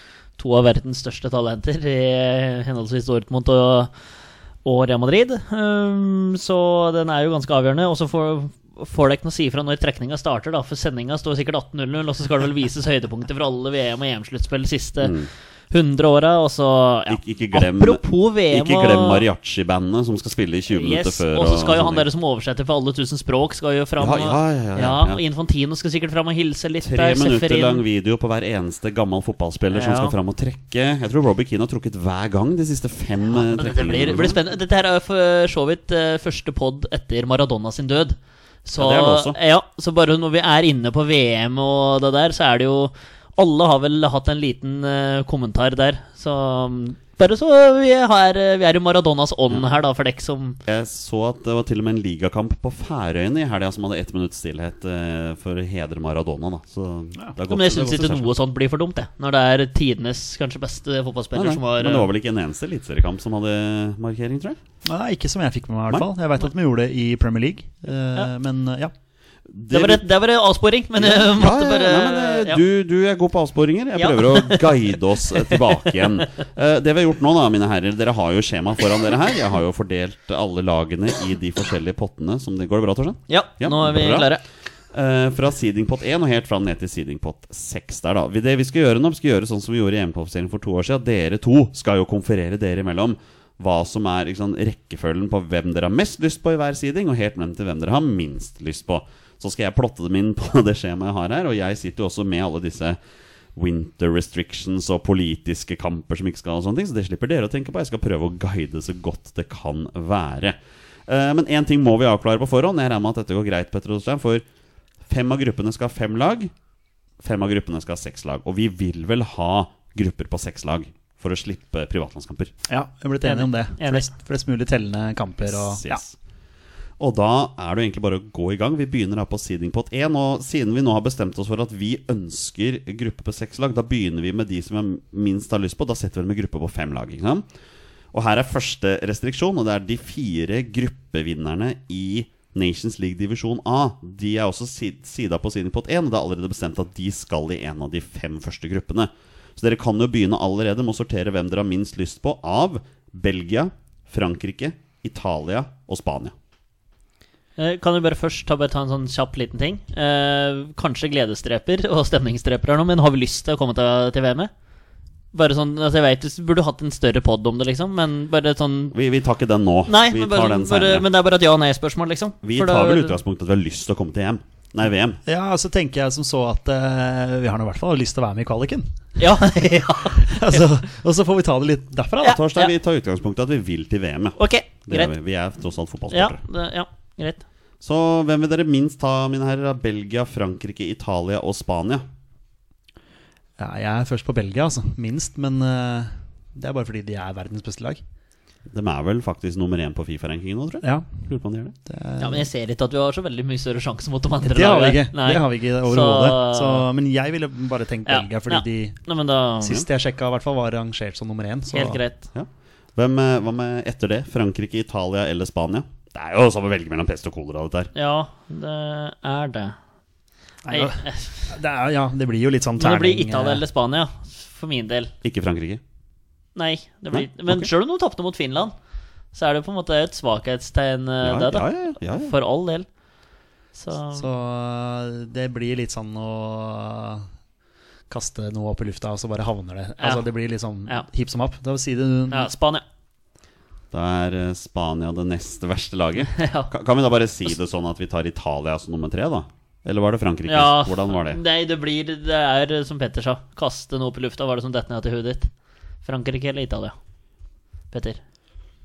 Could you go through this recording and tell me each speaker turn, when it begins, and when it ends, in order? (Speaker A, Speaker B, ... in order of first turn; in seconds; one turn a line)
Speaker A: 0.4-3.9
Speaker A: 4.7-15.2
Speaker B: 15.0-15.3
Speaker A: 15.7-19.2
Speaker B: 17.1-22.1
Speaker A: 20.7-27.8
Speaker B: 24.0-25.2
Speaker B: 26.8-34.4
Speaker A: 29.7-30.2
Speaker A: 33.3-50.6
Speaker B: 38.8-39.4
Speaker B: 50.7-58.3
Speaker A: 57.5-62.1
Speaker B: 61.3-64.6
Speaker C: 64.9-68.9
Speaker B: 69.5-70.0
Speaker A: 69.7-72.6
Speaker B: 71.0-84.4
Speaker A: 74.0-76.2
Speaker A: 83.3-84.4
Speaker B: 84.9-103.0
Speaker B: 103.6-114.5
Speaker B: 115.1-116.5
Speaker B: 117.2-122.5
Speaker C: 122.7-126.0
Speaker A: 123.2-124.1
Speaker B: 125.5-126.2
Speaker B: 127.0-137.4
Speaker B: 138.1-156.3
Speaker A: 157.6-164.5
Speaker A: 165.3-168.9
Speaker B: 168.9-171.1
Speaker A: 169.9-173.2
Speaker B: 172.4-175.2
Speaker C: 175.2-178.9
Speaker A: 179.2-180.7
Speaker C: 180.2-182.4
Speaker A: 182.2-182.7
Speaker B: 182.2-186.4
Speaker A: 184.4-185.1
Speaker A: 186.1-187.4
Speaker B: 187.8-192.0
Speaker C: 193.6-198.0
Speaker B: 198.7-201.8
Speaker C: 200.8-201.2
Speaker C: 201.9-202.5
Speaker A: 202.2-206.9
Speaker C: 204.5-209.0
Speaker A: 208.1-209.8
Speaker C: 209.6-212.0
Speaker A: 211.7-212.2
Speaker B: 212.3-217.9
Speaker A: 217.9-219.8
Speaker C: 220.7-223.6
Speaker A: 220.7-221.5
Speaker A: 222.8-225.1
Speaker B: 225.2-225.8
Speaker A: 226.6-228.7
Speaker B: 227.1-227.7
Speaker A: 229.3-232.9
Speaker B: 231.2-232.4
Speaker A: 233.8-234.3
Speaker C: 234.1-237.3
Speaker C: 238.1-242.5
Speaker A: 242.3-242.8
Speaker B: 243.9-251.4
Speaker A: 246.2-246.7
Speaker A: 250.5-255.5
Speaker A: 256.0-256.9
Speaker A: 257.9-258.2